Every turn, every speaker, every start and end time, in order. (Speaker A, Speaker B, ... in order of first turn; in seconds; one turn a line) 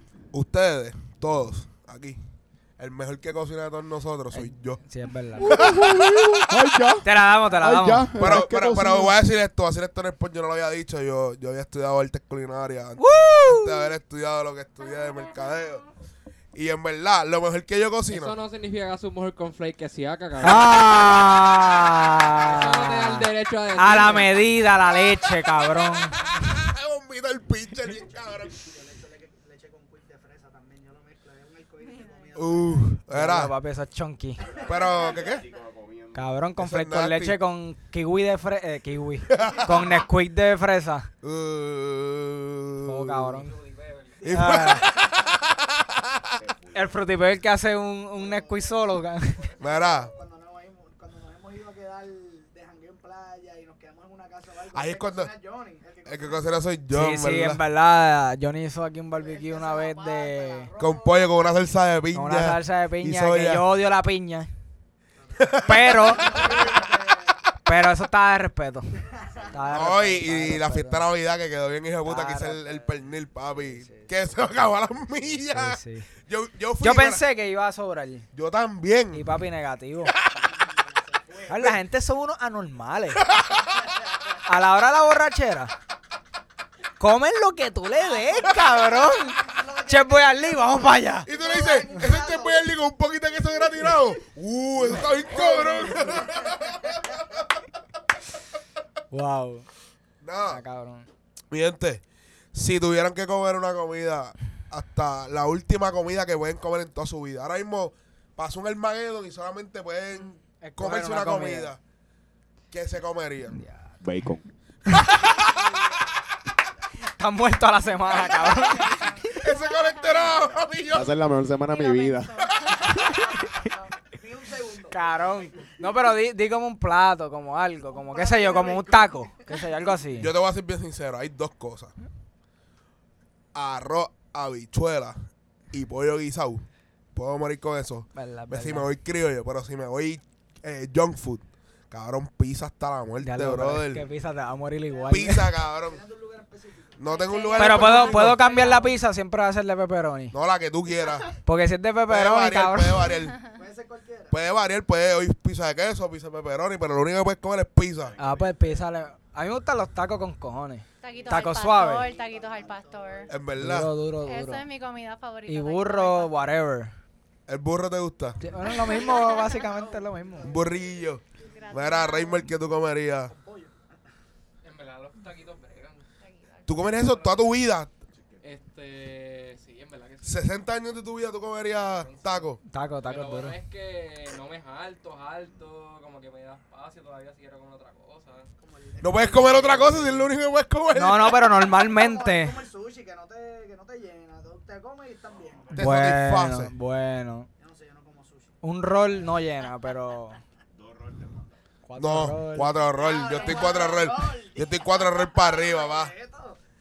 Speaker A: 0.3-2.2
Speaker A: 2.8-4.8
Speaker B: 4.3-5.7
Speaker A: 5.4-6.7
Speaker C: 5.4-9.2
Speaker B: 7.0-8.4
Speaker A: 8.1-15.8
Speaker B: 13.0-13.9
Speaker A: 16.5-18.4
Speaker D: 18.1-20.9
Speaker B: 20.4-26.5
Speaker D: 22.3-24.4
Speaker A: 26.2-28.6
Speaker E: 28.6-32.9
Speaker F: 31.8-32.4
Speaker A: 32.3-33.5
Speaker B: 33.1-34.4
Speaker E: 34.4-35.0
Speaker C: 34.4-36.3
Speaker A: 34.6-35.4
Speaker B: 36.1-41.1
Speaker A: 36.6-37.4
Speaker A: 39.3-39.7
Speaker A: 41.2-43.4
Speaker B: 42.8-43.5
Speaker D: 43.4-44.2
Speaker A: 44.2-46.3
Speaker E: 44.2-45.2
Speaker B: 44.3-44.9
Speaker C: 46.4-47.1
Speaker B: 46.7-49.4
Speaker E: 48.2-48.8
Speaker E: 49.4-56.6
Speaker A: 49.6-50.1
Speaker A: 54.7-55.3
Speaker A: 56.0-57.6
Speaker B: 56.9-60.7
Speaker E: 59.1-61.5
Speaker A: 60.8-63.6
Speaker B: 62.1-64.5
Speaker E: 65.2-67.4
Speaker A: 65.4-67.0
Speaker B: 65.6-66.6
Speaker B: 67.6-68.9
Speaker E: 69.0-69.7
Speaker B: 69.5-71.0
Speaker A: 69.7-77.2
Speaker B: 72.0-72.8
Speaker B: 73.6-74.1
Speaker B: 75.5-76.1
Speaker B: 76.8-78.3
Speaker A: 78.3-79.2
Speaker B: 79.1-80.1
Speaker E: 80.3-81.7
Speaker B: 81.5-83.3
Speaker A: 83.3-83.7
Speaker E: 83.5-84.4
Speaker B: 84.4-85.7
Speaker B: 87.0-91.3
Speaker E: 88.0-92.7
Speaker A: 91.2-97.4
Speaker E: 93.5-94.0
Speaker E: 95.1-97.4
Speaker B: 99.1-99.7
Speaker A: 100.2-100.6
Speaker B: 100.5-101.1
Speaker A: 101.5-102.0
Speaker A: 102.5-111.8
Speaker B: 110.2-111.7
Speaker A: 112.7-113.6
Speaker B: 113.6-114.0
Speaker C: 114.0-114.4
Speaker A: 114.9-115.7
Speaker E: 115.3-116.2
Speaker B: 117.1-119.3
Speaker E: 118.1-119.4
Speaker F: 118.5-120.4
Speaker A: 119.3-121.2
Speaker C: 120.9-122.4
Speaker F: 121.6-123.7
Speaker A: 122.4-123.0
Speaker E: 123.2-125.7
Speaker B: 124.9-130.3
Speaker E: 127.9-129.6
Speaker A: 130.2-131.9
Speaker A: 133.5-135.2
Speaker A: 135.7-144.1
Speaker B: 138.1-138.9
Speaker B: 143.2-145.5
Speaker E: 144.9-147.8
Speaker A: 145.1-146.0
Speaker A: 147.0-148.4
Speaker F: 147.1-148.9
Speaker B: 147.6-150.3
Speaker A: 150.3-151.3
Speaker B: 151.4-153.1
Speaker A: 152.1-153.4
Speaker E: 153.4-154.3
Speaker A: 154.3-158.2
Speaker C: 158.0-158.9
Speaker B: 158.2-162.1
Speaker F: 161.0-163.3
Speaker E: 161.1-163.3
Speaker A: 163.3-163.9
Speaker B: 163.6-164.7
Speaker F: 164.2-166.5
Speaker B: 165.5-166.9
Speaker A: 167.5-168.4
Speaker B: 168.4-170.6
Speaker E: 168.6-172.2
Speaker F: 168.7-169.6
Speaker A: 170.4-173.3
Speaker F: 171.4-172.5
Speaker E: 173.3-173.8
Speaker D: 174.6-176.0
Speaker F: 176.2-176.9
Speaker A: 176.7-177.9
Speaker D: 177.0-177.4
Speaker C: 178.1-178.4
Speaker D: 178.4-180.5
Speaker A: 180.2-182.6
Speaker D: 181.9-188.5
Speaker B: 182.7-183.6
Speaker E: 188.6-190.1
Speaker A: 189.0-191.5
Speaker D: 189.4-190.1
Speaker B: 190.9-192.6
Speaker E: 191.3-195.7
Speaker C: 195.3-196.0
Speaker A: 195.7-196.7
Speaker B: 195.8-197.5
Speaker E: 197.6-198.6
Speaker B: 198.6-200.4
Speaker C: 200.7-201.6
Speaker B: 201.8-202.8
Speaker A: 202.0-206.1
Speaker E: 202.9-206.6